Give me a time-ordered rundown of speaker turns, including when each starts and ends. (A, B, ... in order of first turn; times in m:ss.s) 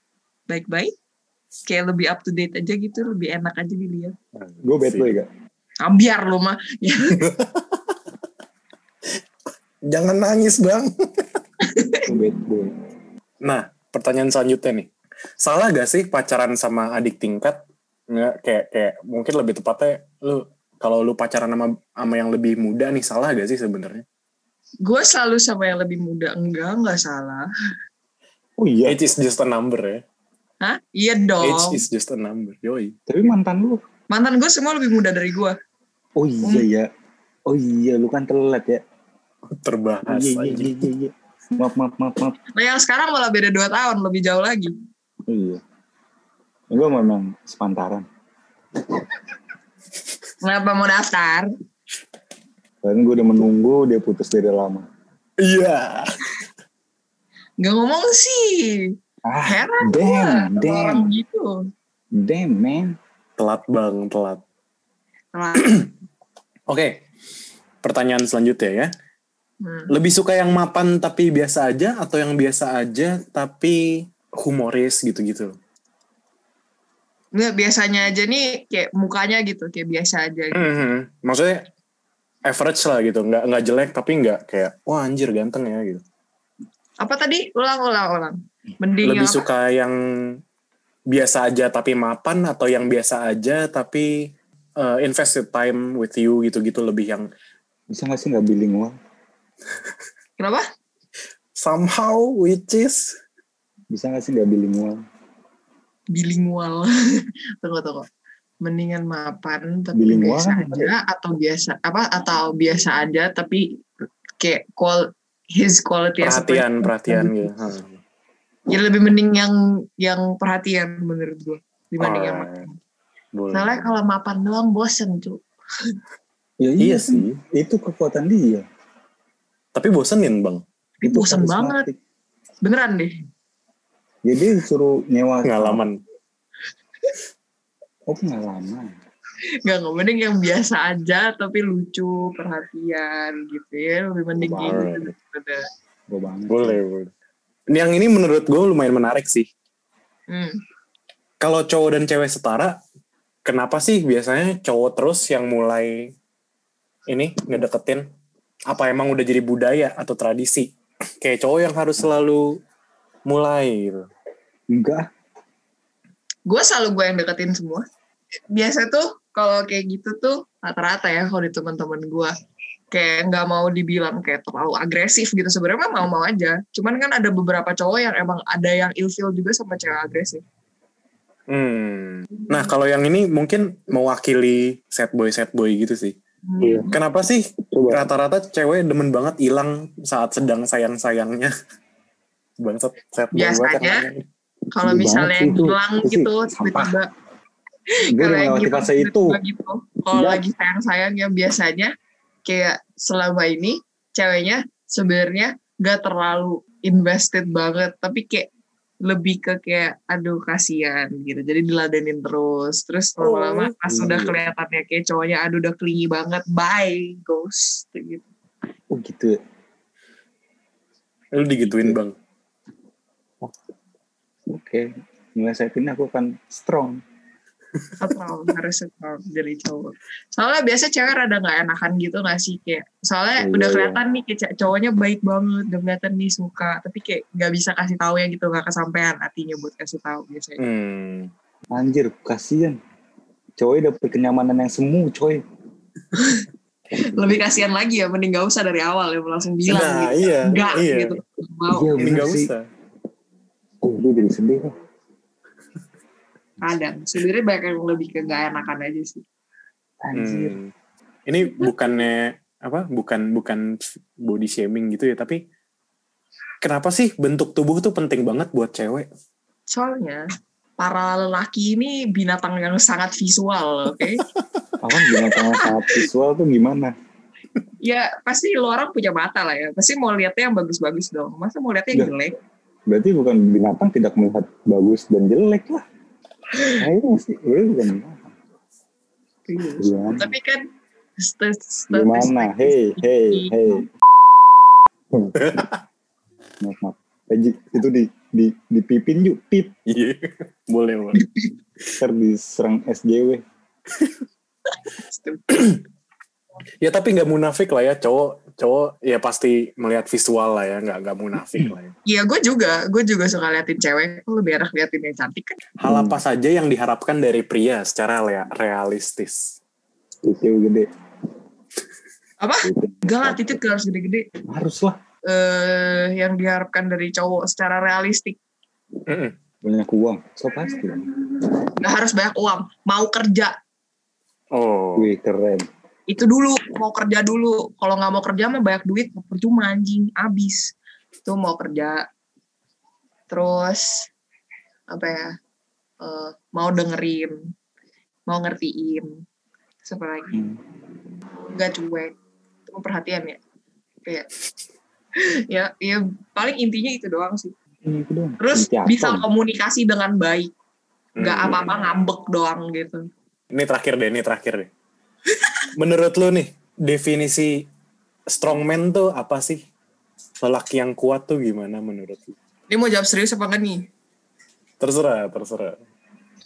0:00.5-0:00.9 A
0:01.7-0:04.2 A
0:04.4-0:05.1 B
0:04.6-0:05.3 C
0:05.8-0:07.2 A
0:07.2-0:07.8 B
0:09.9-0:11.3 B
0:11.6-0:12.1 A
0:12.1-0:12.7 C
0:13.4-0:14.9 B
0:15.4-0:17.6 B
0:18.1-0:24.0 B
0:24.8-0:27.5 A
0:28.6-0:29.0 C
0:28.8-0:30.0 B
0:30.6-0:31.8 A
0:31.4-0:33.0 B
0:33.1-0:33.8 C
0:34.1-0:35.6 A
0:36.2-0:36.9 C
0:37.5-0:38.8 C
0:39.5-0:40.8 B
0:40.1-0:42.4 C
0:42.6-0:44.7 A
0:45.3-0:45.6 C
0:46.7-0:48.1 C
0:50.4-0:51.5 A
0:52.8-0:54.9 C
0:55.4-0:56.1 B
0:57.6-0:58.9 A
0:59.2-1:01.1 C
0:59.4-1:01.6 A
1:02.1-1:03.0 C
1:03.4-1:04.4 B
1:05.3-1:05.8 A
1:05.6-1:05.9 B
1:06.7-1:07.0 B
1:07.8-1:08.9 B
1:09.6-1:09.9 A
1:09.9-1:15.6 B
1:17.3-1:20.8 A
1:20.5-1:21.7 B
1:22.5-1:26.0 B
1:27.0-1:29.4 A
1:29.0-1:30.4 B
1:31.1-1:37.3 B
1:37.9-1:39.0 C
1:40.4-1:40.7 A
1:41.6-1:43.2 B
1:43.9-1:45.0 C
1:46.1-1:46.9 A
1:47.6-1:48.1 A
1:48.6-1:53.7 A
1:49.9-1:50.9 C
1:54.4-1:56.7 A
1:56.2-1:58.0 B
1:57.1-1:57.5 C
1:58.7-2:02.8 A
2:02.0-2:02.7 B
2:03.3-2:03.9 B
2:03.5-2:05.4 A
2:06.6-2:08.6 C
2:06.8-2:07.4 B
2:09.7-2:10.6 B
2:11.0-2:11.9 A
2:11.0-2:12.0 C
2:12.6-2:13.1 A
2:14.2-2:15.8 C
2:15.4-2:16.0 B
2:18.1-2:18.9 C
2:19.7-2:25.6 A
2:24.4-2:24.8 C
2:24.6-2:25.1 B
2:26.1-2:26.8 C
2:26.5-2:27.1 B
2:27.7-2:29.5 B
2:30.3-2:30.6 A
2:31.4-2:32.8 B
2:33.4-2:36.1 B
2:37.1-2:38.1 B
2:38.7-2:42.6 B
2:43.3-2:44.1 B
2:44.7-2:45.1 C
2:46.5-2:47.9 A
2:48.5-2:52.3 A
2:52.9-3:00.4 A
3:01.5-3:06.2 B
3:06.5-3:07.0 A
3:06.6-3:06.9 C
3:06.9-3:11.5 B
3:07.7-3:08.1 C
3:12.6-3:14.2 B
3:13.3-3:14.1 A
3:14.7-3:17.1 A
3:14.8-3:17.0 C
3:17.9-3:21.9 A
3:18.1-3:19.4 C
3:20.1-3:20.4 C
3:22.4-3:28.5 A
3:29.0-3:38.3 A
3:33.8-3:34.4 C
3:38.9-3:39.4 C
3:41.3-3:42.2 B
3:41.6-3:42.0 C
3:44.5-3:47.0 C
3:48.0-4:00.6 A
3:53.4-3:54.0 C
4:00.6-4:01.3 B
4:01.7-4:02.8 C
4:03.6-4:05.4 C
4:06.2-4:06.4 A
4:07.0-4:11.9 A
4:09.7-4:11.2 B
4:11.7-4:12.5 C
4:12.0-4:12.7 B
4:13.8-4:14.7 C
4:16.6-4:19.2 A
4:20.0-4:20.6 C
4:20.1-4:20.7 B
4:21.3-4:25.4 B
4:26.6-4:29.1 B
4:29.7-4:30.2 A
4:30.8-4:34.2 A
4:34.8-4:36.9 C
4:35.4-4:35.9 A
4:37.8-4:42.4 A
4:42.9-4:45.8 C
4:46.6-4:46.8 A
4:46.8-4:48.3 C
4:49.5-4:50.7 A
4:49.8-4:50.3 C
4:51.2-4:53.8 A
4:51.9-4:53.9 C
4:55.1-4:55.4 C
4:55.4-4:55.8 B
4:56.6-4:59.8 C
4:59.9-5:01.2 B
5:01.2-5:01.5 A
5:02.0-5:03.4 C
5:05.0-5:05.7 A
5:06.8-5:11.9 B
5:12.1-5:15.6 A
5:15.8-5:19.6 B
5:15.8-5:16.2 C
5:20.2-5:20.9 C
5:22.4-5:24.3 A
5:22.6-5:23.6 C
5:24.5-5:25.0 C
5:25.3-5:28.4 A
5:29.1-5:29.3 B
5:29.6-5:31.1 C
5:31.6-5:33.5 A
5:34.5-5:35.1 B
5:35.0-5:35.7 C
5:36.1-5:40.7 A
5:41.2-5:42.0 A
5:43.3-5:44.1 A
5:44.9-5:45.3 A
5:46.0-5:47.4 A
5:48.3-5:49.1 A
5:49.8-5:50.5 A
5:50.3-5:50.6 C
5:51.5-5:52.2 A
5:52.7-5:53.4 A
5:55.2-5:57.5 A
5:57.8-5:59.3 C
5:58.4-6:00.5 A
6:01.2-6:01.8 B
6:01.2-6:03.0 A
6:03.5-6:04.7 B
6:05.8-6:07.7 B
6:08.3-6:09.6 B
6:10.4-6:12.3 B
6:12.7-6:13.9 A
6:14.8-6:15.8 B